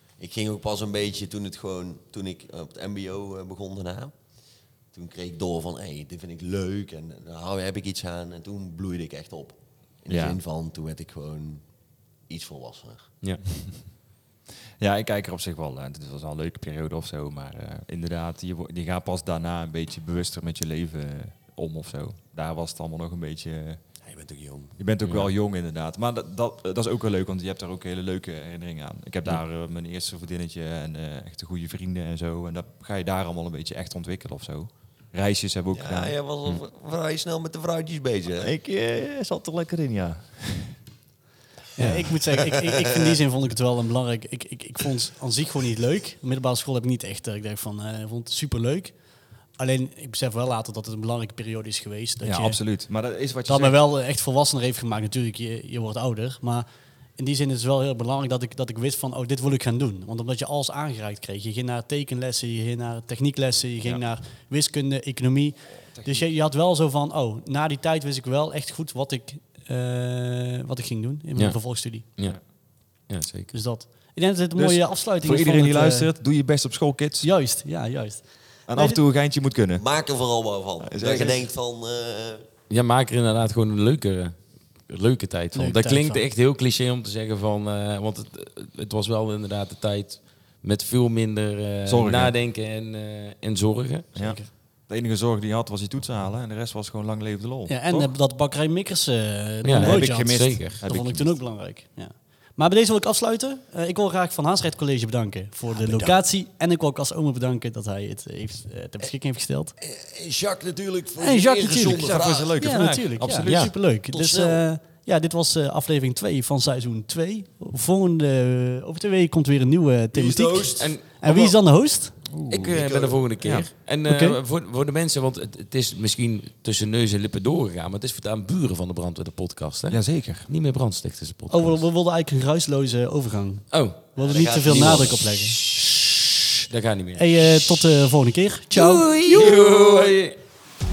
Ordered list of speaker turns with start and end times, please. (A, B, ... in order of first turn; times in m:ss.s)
0:00.2-0:04.1 A
0:04.9-0:11.7 A
0:10.1-0:10.4 B
0:12.3-0:13.1 A
0:14.8-0:23.8 B
0:24.0-0:24.8 A
0:24.8-0:36.6 B
0:35.7-0:38.5 A
0:38.4-0:40.8 B
0:41.8-0:49.0 C
0:41.8-0:42.2 B
0:42.4-0:43.2 A
0:49.6-0:52.6 C
0:52.2-0:53.8 B
0:53.5-0:56.7 C
0:57.2-1:12.0 C
1:05.9-1:06.3 B
1:11.4-1:12.5 D
1:13.1-1:13.5 D
1:13.5-1:16.1 C
1:14.6-1:17.3 B
1:17.2-1:19.0 C
1:18.7-1:19.8 B
1:19.8-1:22.4 A
1:20.8-1:21.5 B
1:22.7-1:24.4 D
1:24.9-1:34.1 D
1:25.6-1:26.2 C
1:31.9-1:32.3 B
1:34.2-1:38.1 B
1:34.2-1:34.5 C
1:37.7-1:49.8 C
1:39.6-1:40.8 D
1:39.7-1:41.4 B
1:45.7-1:46.2 A
1:49.8-1:52.7 A
1:51.2-2:02.2 C
1:51.8-1:53.8 B
1:53.4-1:53.7 D
1:54.1-1:54.6 A
2:00.1-2:00.9 A
2:00.8-2:01.4 D
2:02.2-2:03.7 B
2:02.5-2:11.8 D
2:04.1-2:04.4 C
2:09.9-2:10.5 B
2:11.5-2:15.6 C
2:13.7-2:15.2 D
2:16.7-2:17.6 D
2:17.2-2:19.6 C
2:18.8-2:20.4 D